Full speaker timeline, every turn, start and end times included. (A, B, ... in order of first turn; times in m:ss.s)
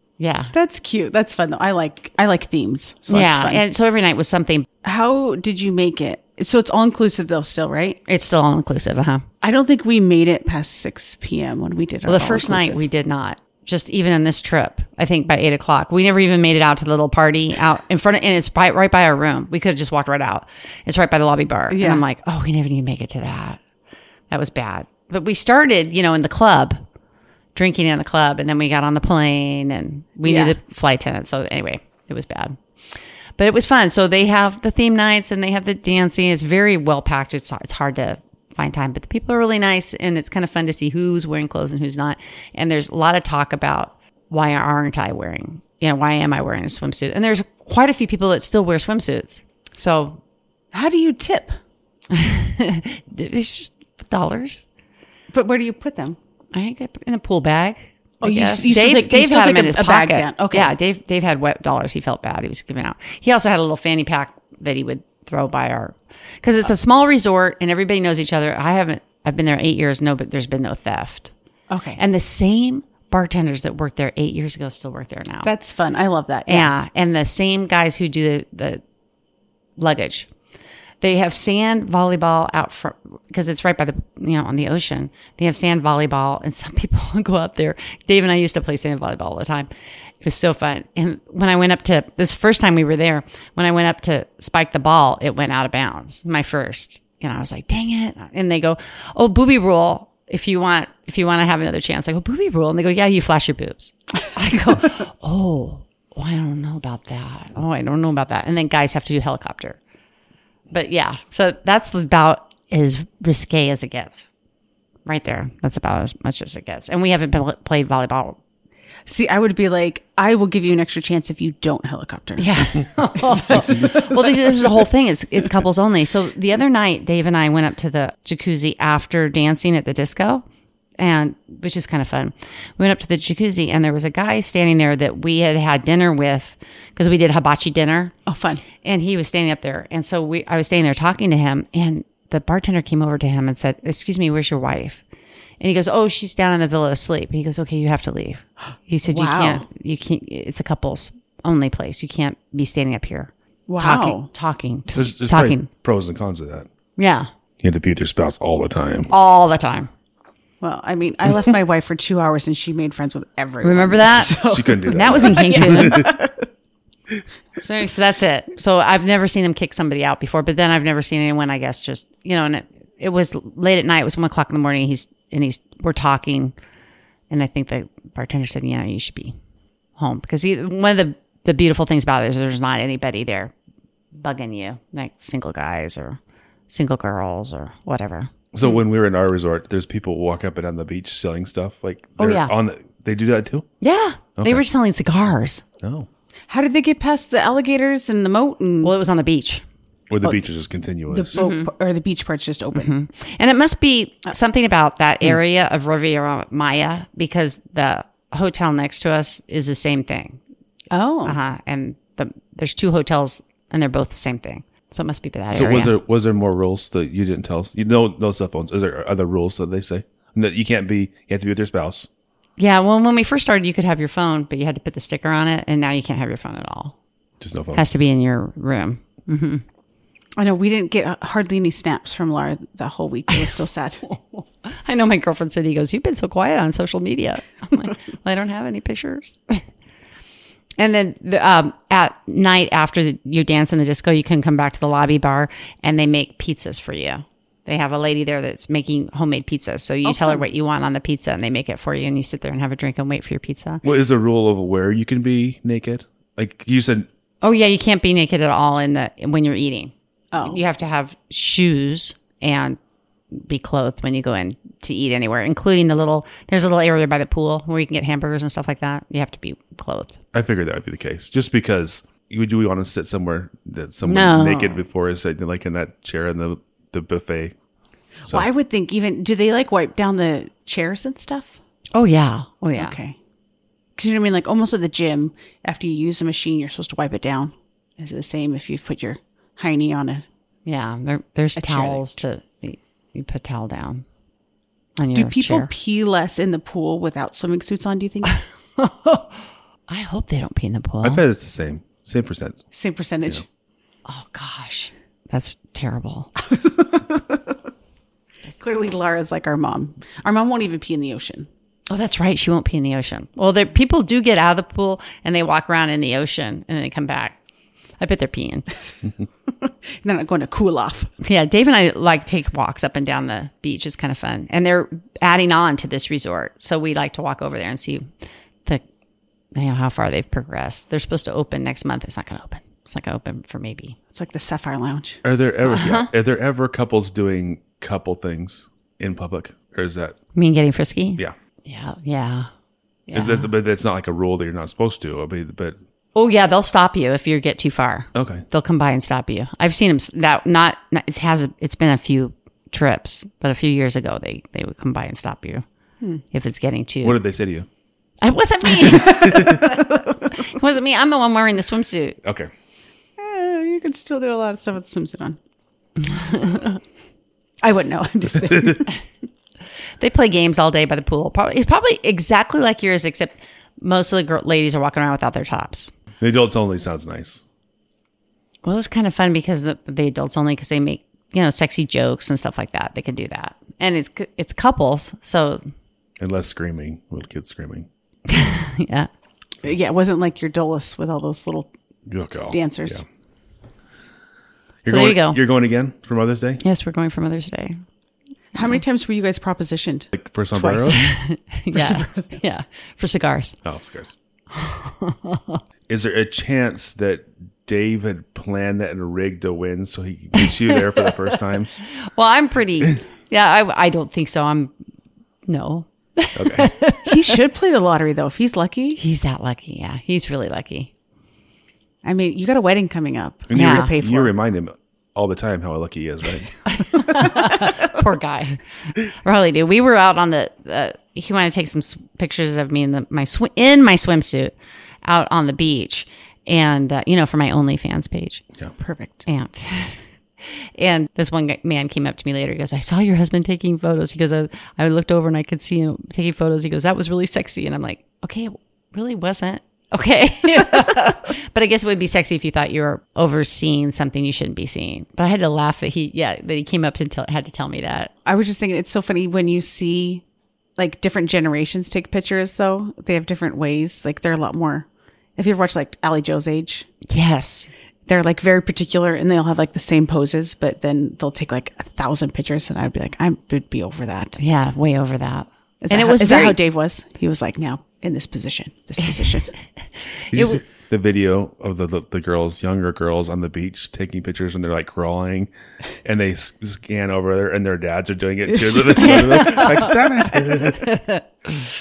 0:00.2-0:00.5 A
0:00.5-0:03.6 B
0:03.1-0:04.7 A
0:04.8-0:08.0 B
0:08.1-0:09.3 A
0:09.4-0:12.8 B
0:12.1-0:23.6 A
0:21.7-0:22.0 B
0:24.3-0:26.8 A
0:27.6-0:32.6 A
0:30.2-0:30.6 B
0:33.4-0:50.2 A
0:50.7-0:51.6 B
0:52.1-0:54.6 A
0:55.3-0:56.2 B
0:56.5-1:11.3 A
0:58.2-1:00.7 B
1:11.7-1:12.0 B
1:12.0-1:15.5 A
1:15.4-1:16.7 B
1:16.5-1:18.8 A
1:19.8-1:20.3 A
1:21.0-1:29.7 A
1:30.2-1:49.8 A
1:50.7-1:54.3 A
1:55.1-1:58.4 A
1:59.1-2:04.4 B
2:02.4-2:10.4 A
2:11.0-2:18.2 A
2:18.3-2:18.6 B
2:18.8-2:25.0 A
2:25.6-2:35.7 A
2:29.0-2:29.7 B
2:33.7-2:34.3 B
2:34.9-2:36.7 C
2:37.0-2:37.3 A
2:37.6-2:39.1 C
2:39.1-2:39.9 A
2:40.6-2:46.4 B
2:43.6-2:46.1 A
2:44.3-2:46.1 C
2:47.6-2:56.5 A
2:57.3-2:59.4 A
3:00.0-3:03.5 A
3:04.2-3:08.3 A
3:08.5-3:13.7 C
3:12.2-3:12.5 A
3:13.8-3:15.6 A
3:14.4-3:14.6 C
3:15.8-3:16.1 C
3:16.5-3:18.9 B
3:18.8-3:19.6 A
3:20.1-3:21.4 C
3:21.1-3:22.9 B
3:21.4-3:21.7 A
3:22.7-3:30.4 A
3:30.9-3:31.4 B
3:31.2-3:35.9 A
3:35.5-3:42.1 C
3:42.6-3:47.0 A
3:47.4-3:47.8 C
3:47.7-3:49.6 A
3:50.4-3:54.0 B
3:54.1-3:59.6 A
4:00.8-4:13.8 A
4:10.0-4:10.4 B
4:13.8-4:17.1 C
4:17.4-4:22.8 A
4:20.3-4:20.6 B
4:23.3-4:30.2 A
4:30.3-4:37.6 C
4:34.0-4:34.8 A
4:38.3-4:41.6 B
4:42.0-4:43.0 A
4:42.8-4:43.2 B
4:44.0-4:50.3 B
4:50.7-4:54.0 A
4:51.6-4:52.2 B
4:55.0-4:55.7 A
4:55.1-4:58.4 B
4:58.8-4:59.3 A
4:59.9-5:01.2 A
5:01.0-5:02.6 C
5:02.7-5:03.4 B
5:04.1-5:06.3 A
5:06.4-5:07.6 B
5:08.5-5:11.5 B
5:11.9-5:17.4 A
5:18.0-5:18.7 A
5:19.5-5:21.1 B
5:21.2-5:28.1 A
5:29.5-5:34.0 A
5:34.1-5:35.2 B
5:35.2-5:40.2 C
5:35.7-5:36.1 A
5:40.4-5:42.5 A
5:43.1-5:43.5 A
5:43.1-5:45.8 C
5:46.2-5:55.6 A
5:48.2-5:48.4 C
5:56.3-5:57.2 A
5:57.0-5:57.7 C
5:58.2-6:02.2 A
5:58.8-6:00.2 B
5:59.2-5:59.6 C
6:02.2-6:02.5 C
6:03.2-6:05.4 B
6:06.2-6:06.8 A
6:07.6-6:09.0 B
6:10.0-6:15.9 A
6:16.2-6:17.4 C
6:18.6-6:25.6 A
6:26.2-6:27.9 C
6:28.3-6:29.1 A
6:29.6-6:31.7 B
6:32.1-6:33.0 C
6:32.5-6:33.0 B
6:34.8-6:35.4 A
6:34.8-6:36.6 C
6:36.6-6:37.8 A
6:38.6-6:41.2 B
6:40.1-6:41.0 C
6:40.9-6:43.6 A
6:41.7-6:42.4 B
6:43.6-6:44.2 C
6:44.5-6:45.6 A
6:45.9-6:51.7 C
6:50.4-6:51.4 A
6:52.1-6:54.7 A
6:55.5-6:57.4 A
6:56.4-6:56.7 C
6:57.0-6:59.0 B
6:59.0-7:00.9 A
7:02.0-7:04.3 B
7:03.5-7:06.5 C
7:03.5-7:03.9 A
7:06.7-7:14.5 A
7:07.2-7:07.5 B
7:15.0-7:18.4 A
7:18.8-7:19.2 B
7:19.3-7:20.0 A
7:20.8-7:38.1 A
7:38.3-7:40.2 B
7:40.8-7:46.9 B
7:47.1-7:47.7 A
7:48.1-7:54.4 B
7:54.4-7:56.6 A
7:55.8-7:59.5 B
8:00.3-8:05.5 C
8:00.3-8:00.6 A
8:06.0-8:11.0 C
8:08.6-8:10.3 B
8:09.0-8:10.0 A
8:10.8-8:11.6 A